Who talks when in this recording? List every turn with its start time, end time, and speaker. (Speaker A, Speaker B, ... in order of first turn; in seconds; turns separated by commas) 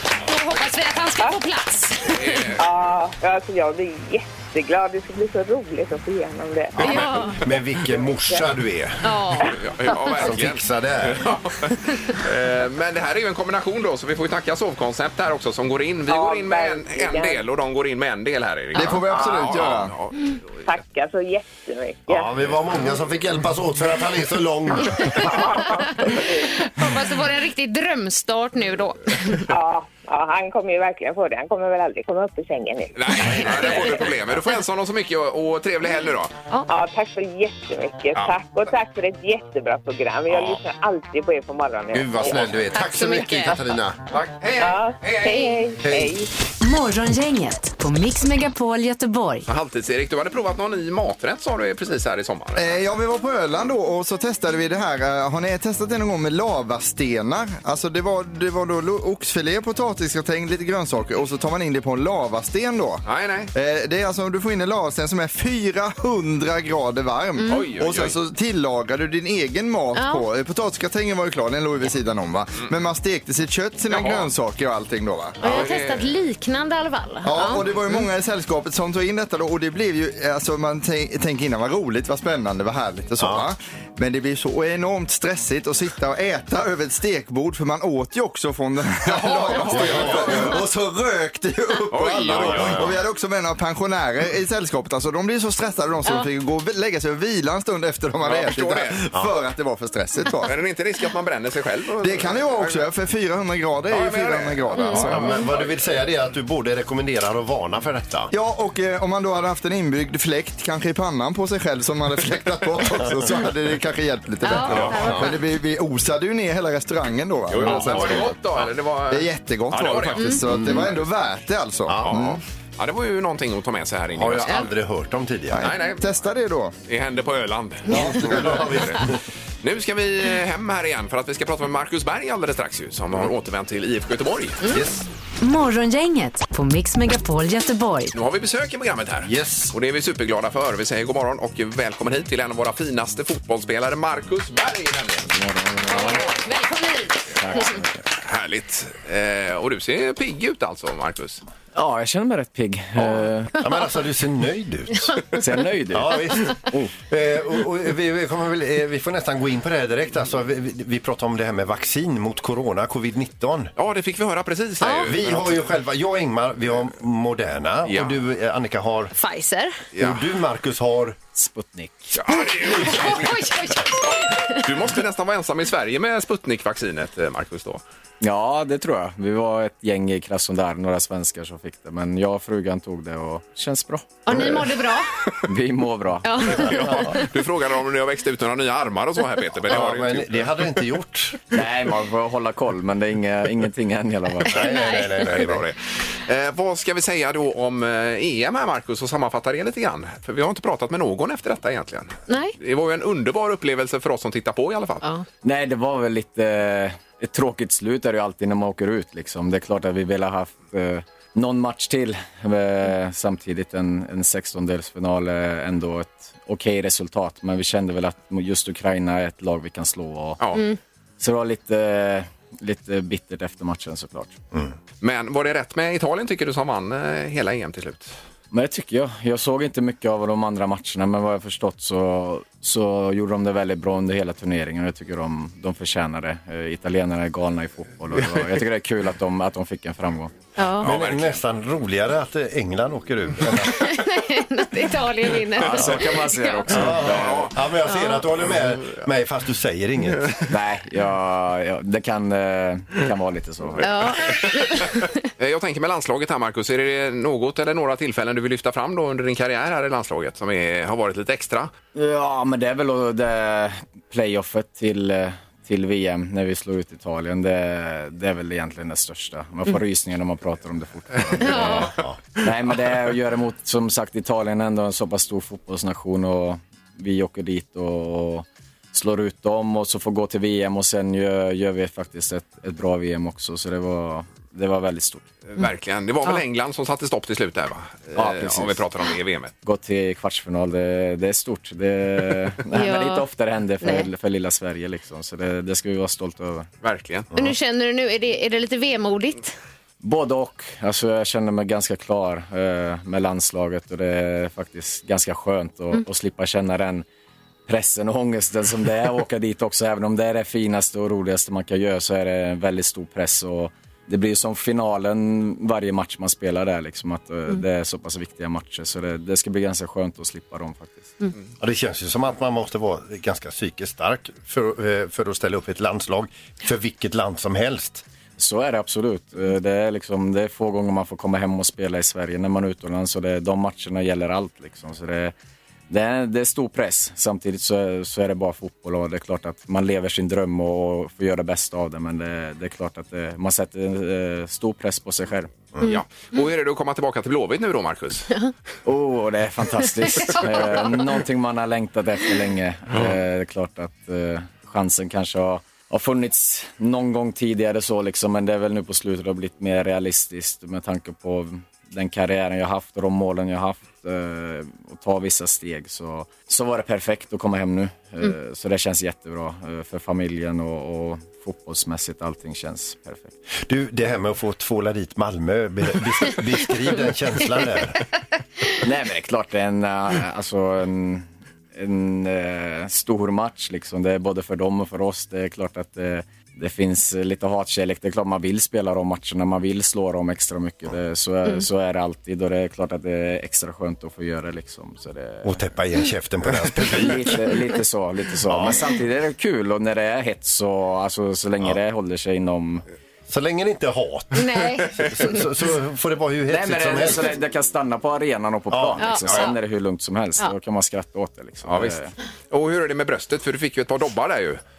Speaker A: 0.2-2.5, Speaker B: 2.0-2.7, Speaker C: 2.6-7.3, Speaker D: 6.8-9.1, Speaker A: 6.8-7.4, Speaker C: 7.9-8.5, Speaker A: 9.0-10.1, Speaker B: 9.4-20.7, Speaker D: 10.2-11.3, Speaker C: 16.1-17.4, Speaker E: 18.7-19.9, Speaker C: 20.6-22.3, Speaker D: 22.1-25.7, Speaker C: 25.2-26.5, Speaker A: 26.1-29.4, Speaker C: 29.5-33.5, Speaker B: 33.0-36.3, Speaker C: 36.7-42.6, Speaker B: 38.1-38.4, Speaker B: 40.3-40.6, Speaker D: 41.9-44.0, Speaker A: 42.7-43.6, Speaker B: 44.1-45.7, Speaker C: 44.6-46.3, Speaker D: 45.8-46.1, Speaker F: 46.6-49.5, Speaker B: 49.5-52.8, Speaker E: 52.5-75.4, Speaker B: 63.0-63.5, Speaker A: 67.4-67.7, Speaker B: 67.5-68.2, Speaker A: 70.0-70.2, Speaker B: 73.9-74.3, Speaker B: 75.4-76.1, Speaker A: 75.4-77.7, Speaker E: 77.2-100.5, Speaker D: 83.2-83.5, Speaker B: 89.0-90.5, Speaker D: 89.7-90.6, Speaker B: 91.9-92.9, Speaker D: 92.3-92.9, Speaker B: 98.2-99.0, Speaker B: 100.4-102.9, Speaker E: 102.0-105.4, Speaker B: 103.9-105.7, Speaker A: 104.7-105.1, Speaker D: 105.1-108.3, Speaker E: 108.3-118.4, Speaker A: 114.4-115.3, Speaker D: 114.7-115.3, Speaker B: 117.5-120.8, Speaker D: 117.7-118.2, Speaker E: 119.1-122.4, Speaker D: 120.5-120.9, Speaker D: 121.9-122.3, Speaker B: 122.0-124.7, Speaker D: 124.1-125.7, Speaker E: 125.5-126.7, Speaker B: 125.6-126.0, Speaker B: 126.9-129.1, Speaker D: 127.9-129.2, Speaker B: 129.6-134.6, Speaker D: 134.7-135.0, Speaker F: 135.4-138.1, Speaker B: 138.1-145.3, Speaker D: 139.2-139.7, Speaker G: 145.3-146.2, Speaker A: 145.9-147.8, Speaker G: 147.3-148.0, Speaker B: 148.2-151.4, Speaker G: 151.7-153.5, Speaker D: 153.6-155.3, Speaker G: 155.4-156.9, Speaker D: 155.9-163.7, Speaker B: 163.8-165.6, Speaker A: 164.8-165.1, Speaker D: 164.9-169.1, Speaker B: 167.8-168.2, Speaker A: 169.1-169.7, Speaker B: 169.9-170.2, Speaker D: 170.0-171.2, Speaker G: 171.3-172.1, Speaker B: 172.1-173.5, Speaker A: 172.3-174.7, Speaker B: 174.6-177.8, Speaker G: 178.2-184.4, Speaker A: 184.2-185.1, Speaker G: 185.4-186.5, Speaker A: 186.2-187.2, Speaker B: 186.4-190.6, Speaker D: 186.8-187.1, Speaker D: 189.7-191.4, Speaker G: 191.5-194.5, Speaker D: 194.5-195.7, Speaker A: 194.5-195.3, Speaker B: 195.2-205.0, Speaker A: 202.3-202.5, Speaker G: 205.4-220.4, Speaker B: 220.4-220.6, Speaker G: 221.2-224.4, Speaker B: 225.0-228.1, Speaker G: 228.5-240.3, Speaker A: 240.6-240.9, Speaker B: 240.8-241.4, Speaker D: 240.8-243.9, Speaker A: 243.7-246.8, Speaker B: 245.6-246.1, Speaker G: 245.6-247.5, Speaker D: 246.7-250.4, Speaker B: 246.8-247.6, Speaker A: 247.9-248.2, Speaker B: 248.4-249.1, Speaker G: 250.5-254.0, Speaker B: 253.8-254.8, Speaker A: 253.8-255.2, Speaker B: 255.4-261.7, Speaker G: 261.9-285.3, Speaker A: 271.4-271.9, Speaker D: 271.5-272.2, Speaker B: 285.5-289.5, Speaker G: 288.1-288.8, Speaker G: 289.6-296.7, Speaker A: 292.7-293.2, Speaker A: 293.8-294.1, Speaker B: 296.8-297.3, Speaker A: 297.3-299.5, Speaker G: 300.0-307.1, Speaker G: 307.7-321.1, Speaker D: 321.6-328.0, Speaker G: 328.4-335.3, Speaker G: 335.9-345.6, Speaker B: 345.8-348.3, Speaker G: 348.8-373.4, Speaker A: 350.1-350.9, Speaker D: 373.6-378.1, Speaker G: 378.8-395.6, Speaker D: 395.4-397.6, Speaker G: 396.9-402.8, Speaker D: 398.5-398.9, Speaker D: 403.3-407.4, Speaker A: 404.3-405.4, Speaker G: 406.5-412.1, Speaker D: 408.7-409.5, Speaker A: 409.0-409.6, Speaker B: 411.6-414.6